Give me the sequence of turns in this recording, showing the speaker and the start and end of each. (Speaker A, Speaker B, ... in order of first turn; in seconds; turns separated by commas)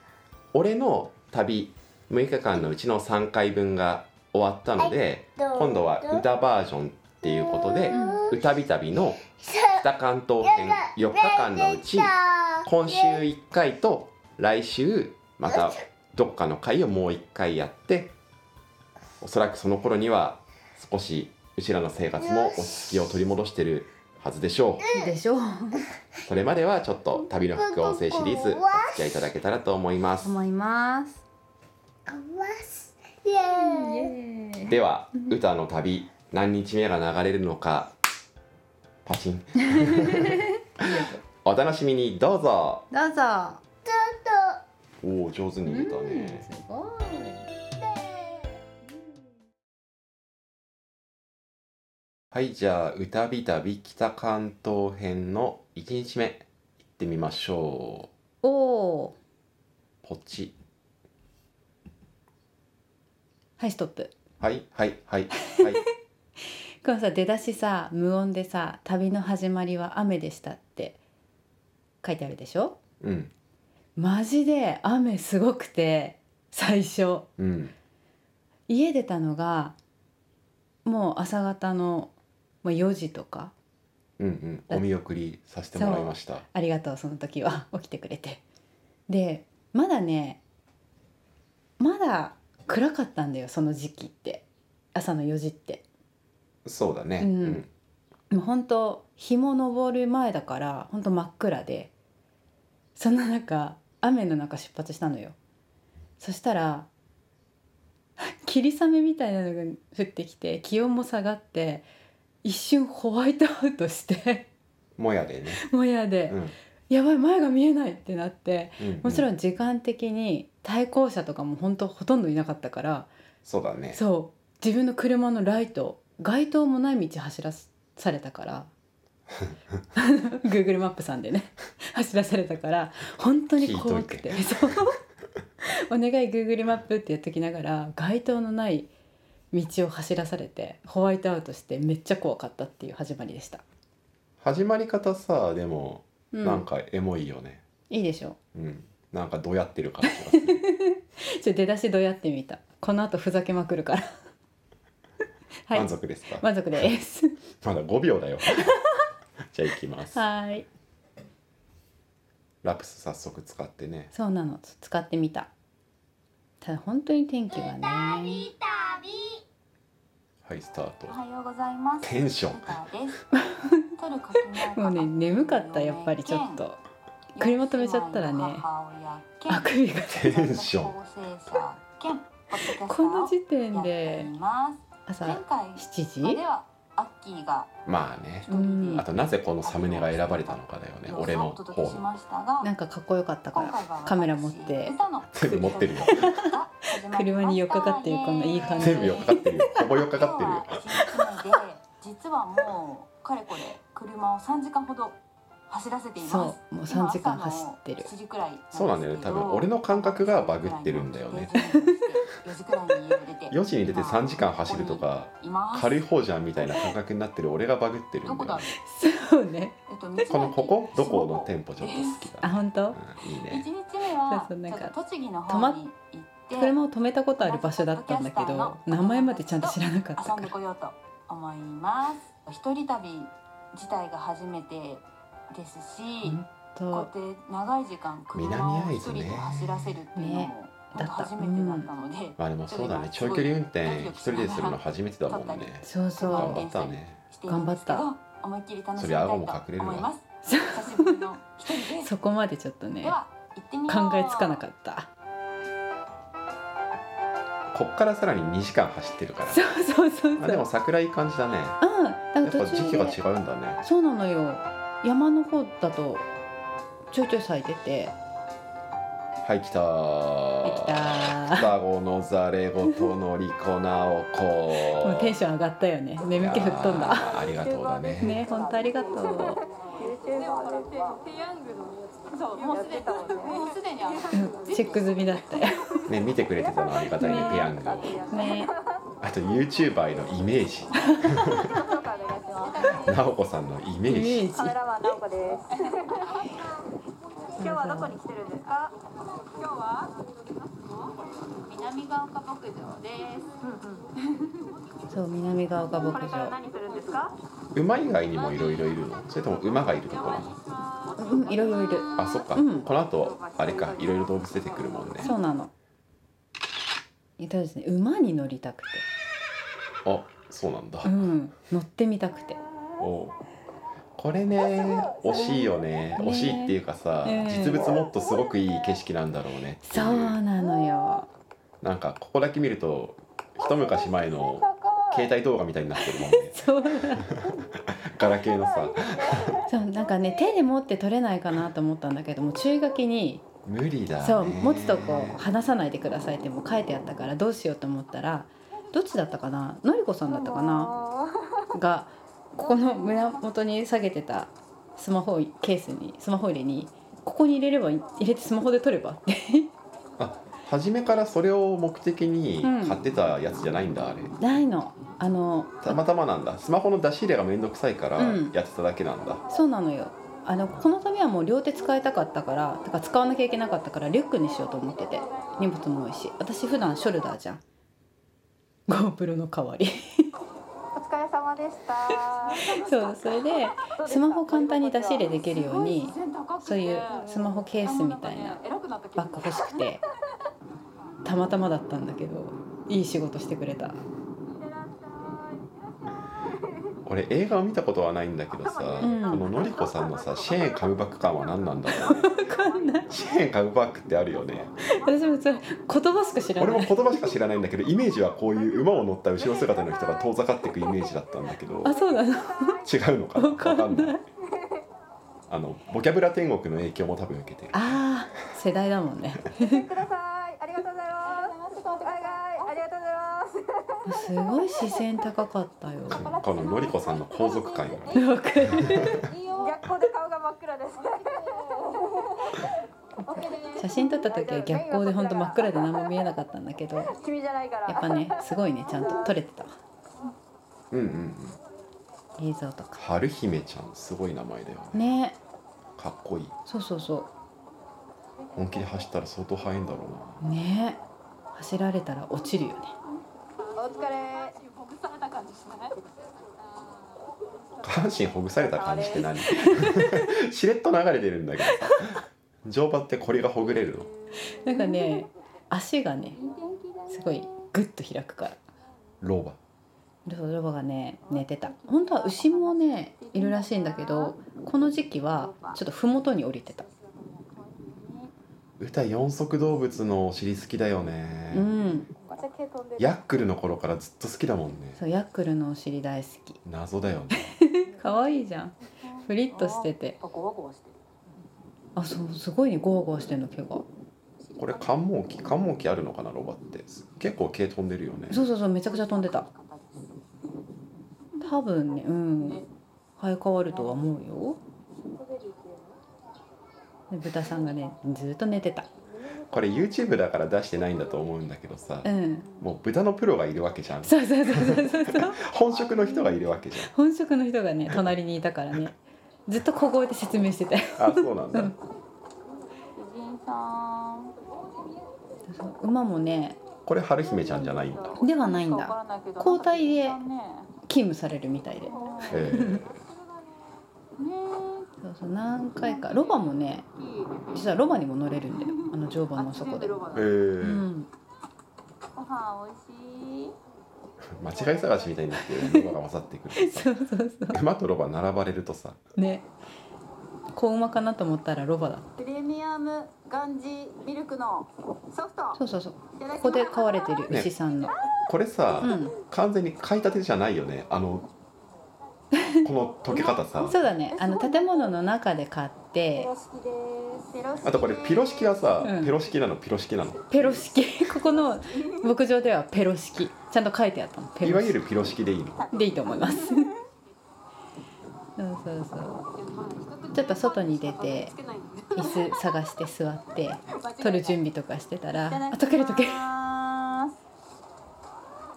Speaker A: 0.5-9.2, Speaker B: 4.8-6.2, Speaker B: 7.2-8.4, Speaker C: 7.9-8.2, Speaker B: 9.3-9.8, Speaker A: 9.7-18.1, Speaker B: 10.4-13.2, Speaker B: 15.5-15.8, Speaker A: 19.2-24.9, Speaker B: 22.2-22.9, Speaker B: 24.8-25.1, Speaker C: 24.9-25.8, Speaker A: 26.3-30.3, Speaker B: 27.2-29.1, Speaker C: 30.2-31.2, Speaker B: 32.0-34.1, Speaker C: 33.6-35.4, Speaker A: 34.7-37.9, Speaker A: 39.0-42.9, Speaker C: 39.6-41.2, Speaker C: 42.9-43.6, Speaker B: 43.8-44.6, Speaker A: 45.0-46.5, Speaker C: 45.6-47.5, Speaker B: 47.8-48.6, Speaker A: 52.3-58.1, Speaker C: 58.4-59.1, Speaker A: 60.0-60.5, Speaker C: 63.6-64.1, Speaker A: 64.4-65.8, Speaker C: 66.8-71.0, Speaker C: 72.0-72.8, Speaker A: 73.0-73.3, Speaker C: 74.0-77.3, Speaker A: 77.4-77.7, Speaker C: 78.7-79.8, Speaker C: 80.8-82.1, Speaker C: 82.6-83.5, Speaker A: 84.2-86.4, Speaker C: 85.7-88.4, Speaker C: 89.1-90.4, Speaker C: 91.8-95.8, Speaker A: 96.6-97.7, Speaker C: 97.2-97.6, Speaker C: 98.3-101.9, Speaker C: 103.0-105.3, Speaker C: 106.2-106.9, Speaker C: 108.2-111.8, Speaker C: 112.4-114.5, Speaker A: 115.0-115.6, Speaker C: 115.6-123.1, Speaker A: 116.3-116.5, Speaker A: 118.8-119.3, Speaker A: 123.4-124.0, Speaker C: 123.9-128.7, Speaker C: 129.9-135.0, Speaker A: 133.6-134.5, Speaker C: 135.6-138.9, Speaker C: 139.5-143.6, Speaker A: 144.4-147.6, Speaker C: 146.3-146.7, Speaker C: 147.9-148.4, Speaker A: 148.5-150.6, Speaker C: 150.0-154.1, Speaker C: 155.7-157.3, Speaker A: 155.7-156.9, Speaker A: 157.6-158.7, Speaker C: 158.5-159.0, Speaker A: 159.5-160.2, Speaker C: 160.1-160.7, Speaker A: 162.6-164.1, Speaker C: 164.1-165.5, Speaker C: 166.6-168.5, Speaker B: 167.5-169.4, Speaker A: 170.4-171.2, Speaker D: 171.1-176.6, Speaker A: 172.0-172.8, Speaker C: 173.3-173.9, Speaker C: 174.7-176.8, Speaker D: 177.3-187.7, Speaker C: 177.4-178.6, Speaker C: 179.5-180.2, Speaker A: 180.1-180.9, Speaker C: 182.6-184.3, Speaker C: 185.1-186.4, Speaker A: 187.8-192.0, Speaker D: 188.5-192.7, Speaker C: 188.5-189.1, Speaker C: 192.6-194.9, Speaker D: 193.5-216.9, Speaker A: 195.3-196.4, Speaker C: 196.1-196.5, Speaker C: 197.1-199.8, Speaker A: 198.8-200.8, Speaker C: 206.2-208.1, Speaker A: 208.7-211.5, Speaker A: 213.5-218.7, Speaker D: 218.2-218.7, Speaker C: 218.8-219.8, Speaker D: 219.9-222.3, Speaker A: 220.3-223.7, Speaker C: 222.4-223.0, Speaker D: 223.3-226.8, Speaker C: 224.3-224.9, Speaker C: 225.5-225.8, Speaker C: 226.5-230.5, Speaker D: 227.4-236.4, Speaker C: 236.2-237.1, Speaker D: 236.9-252.1, Speaker A: 238.3-239.9, Speaker C: 240.2-241.9, Speaker A: 242.4-247.2, Speaker C: 245.8-246.6, Speaker C: 247.5-248.1, Speaker A: 248.9-250.1, Speaker C: 250.4-251.2, Speaker C: 252.0-253.2, Speaker D: 253.0-254.6, Speaker C: 253.9-255.1, Speaker A: 257.7-259.6, Speaker C: 259.5-260.7, Speaker A: 260.4-261.8, Speaker C: 261.8-263.2, Speaker A: 262.4-263.8, Speaker C: 263.8-266.2, Speaker C: 267.1-268.1, Speaker A: 269.4-275.4, Speaker C: 270.6-271.7, Speaker C: 274.9-277.3, Speaker A: 276.3-278.4, Speaker E: 277.5-285.0, Speaker C: 278.2-279.6, Speaker D: 278.5-278.7, Speaker D: 280.0-281.2, Speaker D: 282.3-286.1, Speaker C: 284.3-286.0, Speaker A: 286.1-288.2, Speaker D: 286.9-288.7, Speaker C: 287.1-288.7, Speaker E: 287.4-288.7, Speaker A: 289.2-291.8, Speaker C: 291.0-291.4, Speaker E: 291.5-293.1, Speaker D: 291.6-293.2, Speaker A: 292.9-294.6, Speaker C: 294.1-294.8, Speaker E: 294.6-296.6, Speaker D: 294.7-296.6, Speaker C: 297.6-298.2, Speaker E: 297.6-298.9, Speaker D: 297.6-298.9, Speaker E: 299.6-300.1, Speaker E: 300.7-301.1, Speaker D: 301.6-303.6, Speaker E: 303.6-304.0, Speaker D: 304.2-304.7, Speaker C: 305.1-306.6, Speaker E: 305.9-307.3, Speaker D: 306.0-307.3, Speaker A: 307.7-310.6, Speaker E: 308.5-308.9, Speaker E: 309.9-310.4, Speaker D: 310.1-312.5, Speaker E: 311.0-312.2, Speaker C: 311.2-312.9, Speaker A: 312.1-315.3, Speaker E: 313.1-315.3, Speaker C: 315.2-315.7, Speaker C: 317.4-319.1, Speaker A: 320.0-321.3, Speaker C: 321.0-322.6, Speaker A: 323.0-323.3, Speaker A: 324.1-330.4, Speaker C: 326.2-327.9, Speaker C: 329.8-331.3, Speaker A: 331.8-339.6, Speaker D: 334.5-335.2, Speaker C: 336.0-337.3, Speaker C: 339.7-343.4, Speaker A: 343.6-345.4, Speaker C: 344.2-350.9, Speaker D: 350.3-351.3, Speaker C: 351.7-359.7, Speaker D: 352.7-353.4, Speaker A: 360.2-364.3, Speaker C: 362.6-363.0, Speaker C: 364.4-365.9, Speaker A: 365.8-369.4, Speaker C: 368.2-368.5, Speaker C: 369.5-377.6, Speaker D: 374.6-375.8, Speaker C: 378.9-380.3, Speaker D: 380.9-389.8, Speaker C: 382.1-388.6, Speaker E: 384.1-384.6, Speaker C: 389.1-390.0, Speaker C: 391.2-394.0, Speaker D: 394.9-395.4, Speaker A: 397.1-402.3, Speaker D: 398.6-400.4, Speaker C: 399.0-399.5, Speaker E: 399.7-401.6, Speaker C: 401.9-403.1, Speaker D: 402.1-403.2, Speaker E: 402.4-403.2, Speaker A: 403.1-404.7, Speaker C: 404.8-407.3, Speaker D: 405.1-405.5, Speaker A: 406.6-411.9, Speaker D: 409.5-410.2, Speaker C: 411.8-412.8, Speaker D: 411.8-412.9, Speaker A: 412.8-414.2, Speaker C: 413.3-414.2, Speaker A: 415.5-418.0, Speaker C: 417.7-419.9, Speaker D: 419.6-423.6, Speaker E: 419.9-423.4, Speaker C: 424.1-426.3, Speaker A: 426.1-429.3, Speaker D: 426.2-432.6, Speaker E: 426.4-427.9, Speaker C: 428.1-429.3, Speaker E: 429.2-431.7, Speaker D: 433.2-436.0, Speaker C: 433.3-437.1, Speaker E: 433.3-435.6, Speaker D: 437.1-438.2, Speaker E: 437.3-438.1, Speaker C: 437.9-439.8, Speaker A: 440.9-441.6, Speaker C: 442.4-443.0, Speaker A: 443.0-445.0, Speaker C: 444.9-445.4, Speaker A: 446.0-446.5, Speaker C: 446.7-447.3, Speaker A: 448.5-450.4, Speaker C: 450.4-451.0, Speaker C: 451.5-452.9, Speaker D: 453.7-455.9, Speaker E: 453.8-454.6, Speaker A: 457.8-464.1, Speaker E: 458.6-459.2, Speaker D: 458.7-459.3, Speaker C: 459.4-460.3, Speaker D: 463.8-465.2, Speaker C: 464.4-466.4, Speaker D: 466.3-467.6, Speaker C: 467.1-468.6, Speaker A: 469.2-469.6, Speaker C: 470.2-476.8, Speaker D: 471.2-474.4, Speaker D: 475.3-475.8, Speaker D: 476.5-478.3, Speaker A: 478.8-481.7, Speaker C: 481.5-482.1, Speaker D: 482.2-483.1, Speaker A: 483.0-485.0, Speaker C: 485.0-486.6, Speaker A: 486.6-487.5, Speaker C: 487.4-488.7, Speaker D: 488.9-491.0, Speaker C: 489.2-490.2, Speaker C: 491.9-493.8, Speaker D: 494.4-494.9, Speaker A: 494.6-498.5, Speaker C: 498.3-499.4, Speaker D: 498.5-500.2, Speaker C: 501.4-502.6, Speaker D: 502.4-502.6, Speaker C: 503.2-504.6, Speaker D: 503.7-504.1, Speaker C: 507.1-508.9, Speaker A: 509.5-512.1, Speaker C: 512.0-512.5, Speaker A: 512.6-516.9, Speaker C: 514.0-515.4, Speaker C: 516.1-519.0, Speaker C: 519.5-521.8, Speaker A: 521.0-521.7, Speaker D: 522.9-524.3, Speaker C: 525.5-526.6, Speaker A: 526.9-528.3, Speaker D: 527.2-530.7, Speaker C: 528.2-530.2, Speaker C: 530.9-532.9, Speaker D: 531.9-532.7, Speaker A: 532.3-533.0, Speaker D: 534.1-534.9, Speaker C: 535.0-536.8, Speaker D: 535.8-537.5, Speaker C: 537.5-539.9, Speaker D: 538.5-540.3, Speaker A: 540.1-540.9, Speaker C: 540.6-541.1, Speaker D: 542.1-543.5, Speaker A: 544.3-546.9, Speaker D: 544.5-545.3, Speaker C: 545.4-546.0, Speaker C: 546.5-547.6, Speaker A: 547.5-549.0, Speaker C: 549.1-549.5, Speaker C: 550.5-552.1, Speaker D: 552.2-555.6, Speaker C: 555.5-557.9, Speaker D: 556.1-557.4, Speaker A: 558.2-561.2, Speaker C: 558.8-559.1, Speaker C: 562.3-562.6, Speaker A: 562.6-563.8, Speaker D: 563.1-565.0, Speaker C: 563.6-566.3, Speaker D: 566.1-569.0, Speaker A: 567.6-570.7, Speaker C: 568.8-569.1, Speaker C: 570.3-574.9, Speaker D: 571.1-571.9, Speaker A: 574.4-575.6, Speaker D: 575.6-576.8, Speaker C: 575.7-576.7, Speaker C: 578.4-579.2, Speaker D: 579.4-582.4, Speaker C: 580.1-581.3, Speaker C: 581.9-586.3, Speaker D: 583.7-584.4, Speaker D: 585.2-587.2